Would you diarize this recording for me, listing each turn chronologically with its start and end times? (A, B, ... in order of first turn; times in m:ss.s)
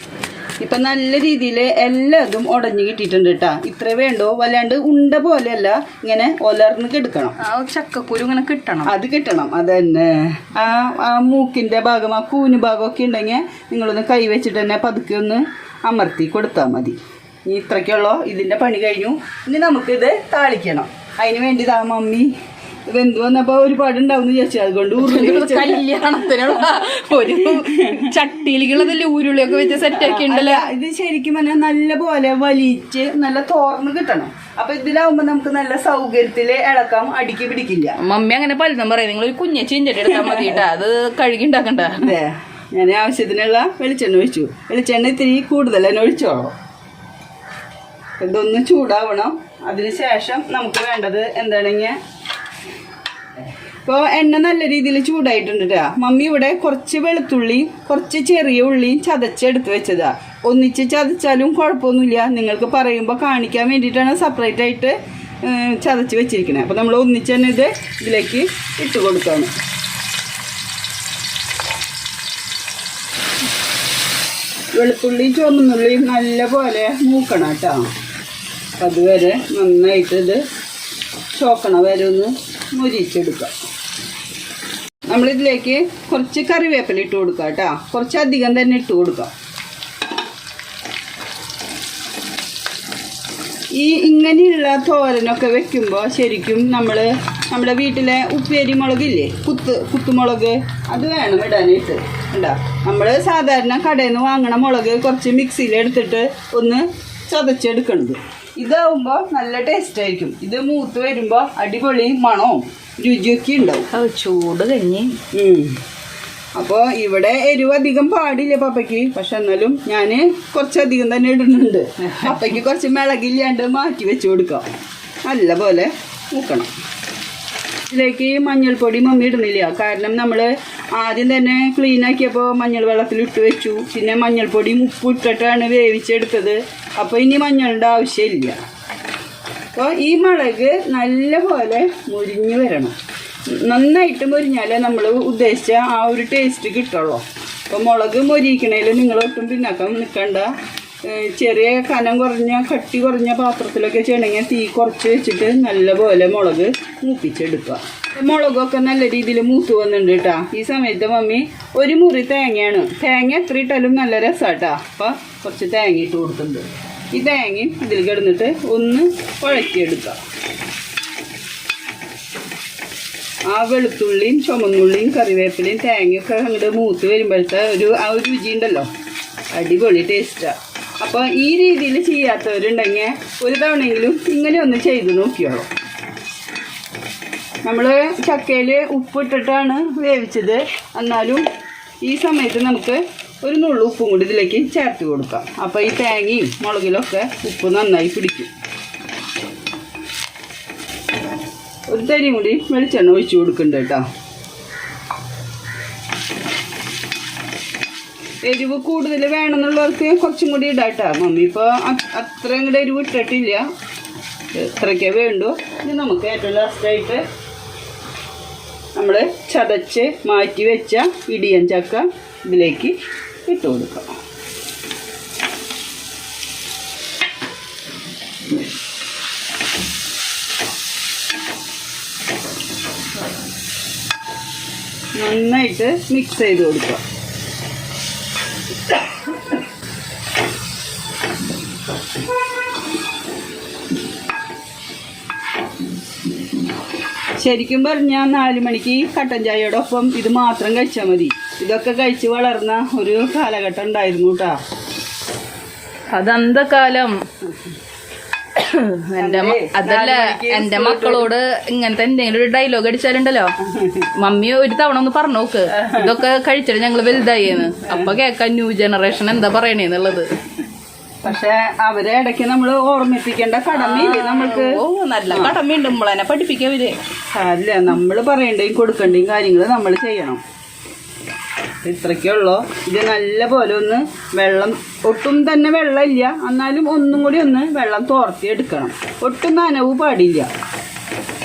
0:00.6-0:07.4 A
0:07.4-0:08.9 B
0:08.8-0:22.3 A
0:22.9-0:26.6 A
0:25.0-0:30.7 B
0:27.4-0:28.0 A
0:29.9-0:38.0 A
0:38.0-0:42.2 B
0:42.0-0:46.5 A
0:48.2-0:52.0 A
0:53.8-1:09.5 A
1:14.7-1:17.8 A
1:18.8-1:20.4 A
1:21.3-1:23.5 A
1:25.1-1:29.3 A
1:33.8-1:53.9 A
1:53.9-1:55.2 B
1:55.3-1:55.8 A
1:56.6-2:04.7 A
2:05.3-2:06.7 A
2:07.9-2:18.6 A
2:19.7-2:23.0 A
2:23.5-2:30.5 A
2:31.0-2:50.2 A
2:53.5-2:58.9 A
2:59.5-3:05.7 A
3:07.6-3:11.4 A
3:12.0-3:18.5 A
3:21.9-3:24.0 A
3:28.4-3:33.6 A
3:34.5-3:37.2 A
3:39.0-3:42.9 A
3:43.4-3:44.1 A
3:55.2-3:57.0 A
4:07.4-4:14.6 A
4:16.1-4:17.2 B
4:18.5-4:23.5 B
4:19.2-4:21.3 A
4:23.6-4:24.1 A
4:24.2-4:30.3 B
4:25.7-4:26.1 A
4:31.2-4:35.5 A
4:33.7-4:37.0 B
4:37.3-4:40.4 A
4:41.8-4:50.5 A